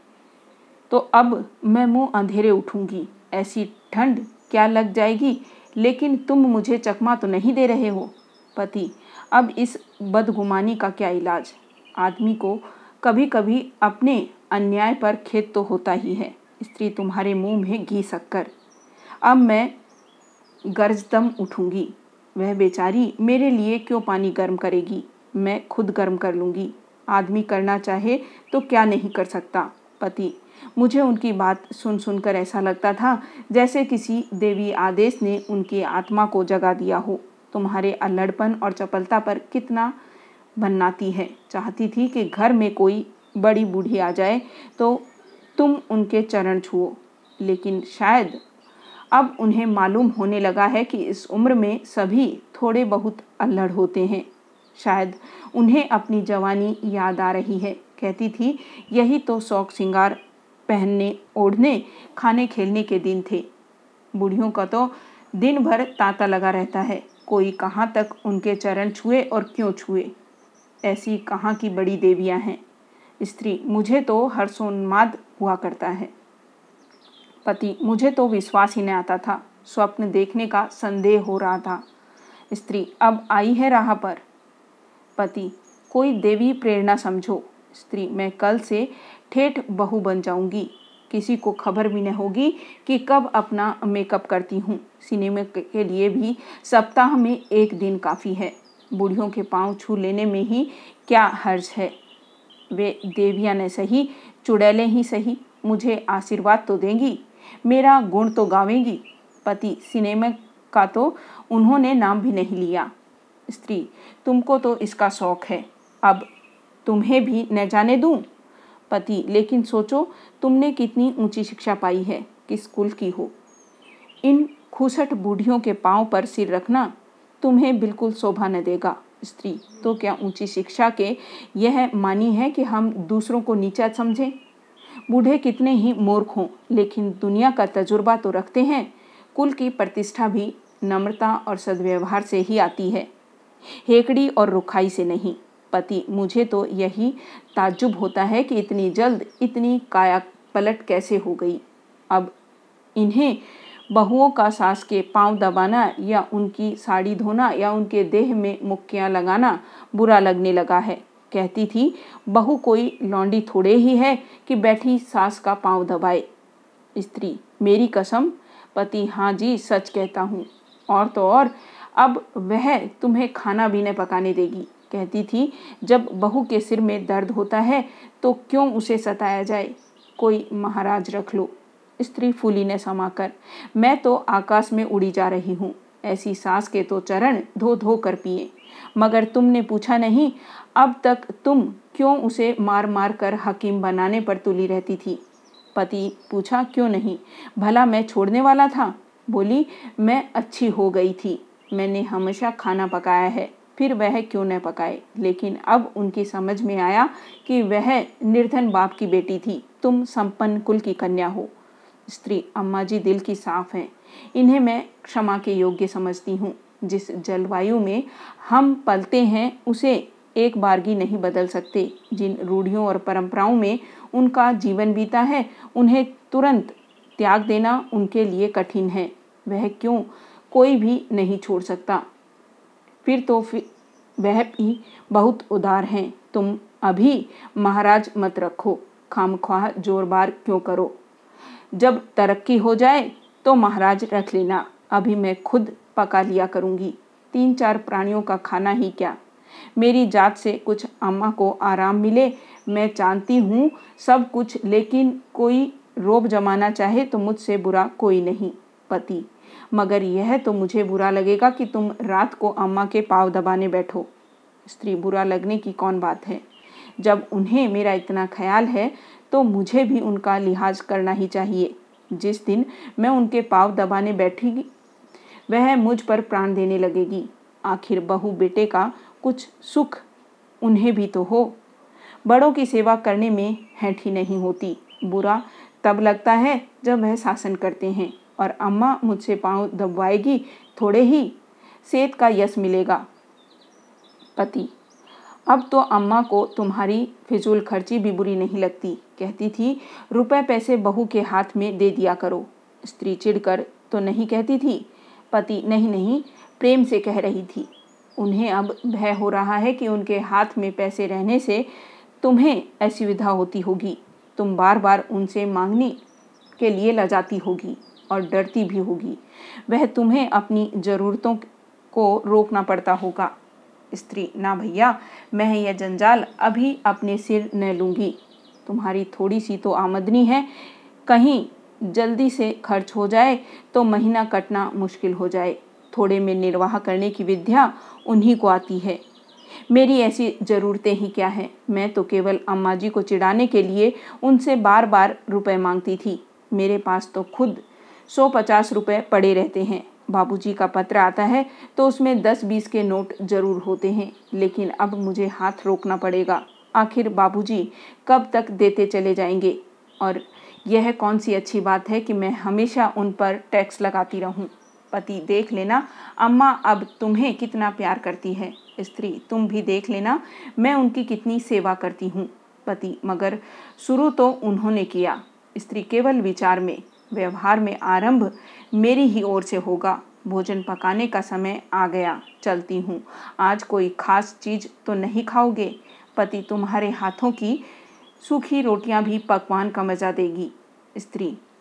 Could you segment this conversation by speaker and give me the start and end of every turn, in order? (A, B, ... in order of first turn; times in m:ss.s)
0:00.9-0:18.5 A
0:19.2-0:19.8 A
0:20.7-0:39.9 A
0:40.6-0:48.4 A
0:49.1-1:03.5 A
1:04.1-1:10.1 A
1:10.8-1:12.6 A
1:13.2-1:16.1 A
1:17.4-1:21.8 A
1:22.5-1:24.2 A
1:25.2-1:42.0 A
1:42.7-1:52.9 A
1:53.5-1:56.3 A
1:56.8-1:58.2 A
1:58.9-2:03.3 A
2:04.2-2:14.3 A
2:15.1-2:23.1 A
2:23.8-2:32.3 A
2:33.0-2:46.3 A
2:47.0-3:15.2 A
3:15.7-3:31.5 A
3:32.1-3:52.0 A
3:53.0-4:01.0 A
4:01.7-4:09.2 A
4:09.8-4:24.1 A
4:24.6-4:26.4 A
4:27.0-4:34.7 A
4:35.5-4:40.0 A
4:40.6-4:41.6 A
4:42.2-4:53.0 A
4:54.4-4:54.7 A
4:55.5-5:11.7 A
5:12.2-5:16.0 A
5:16.6-5:23.3 A
5:23.9-5:39.0 A
5:39.7-6:27.6 A
6:28.2-6:31.4 A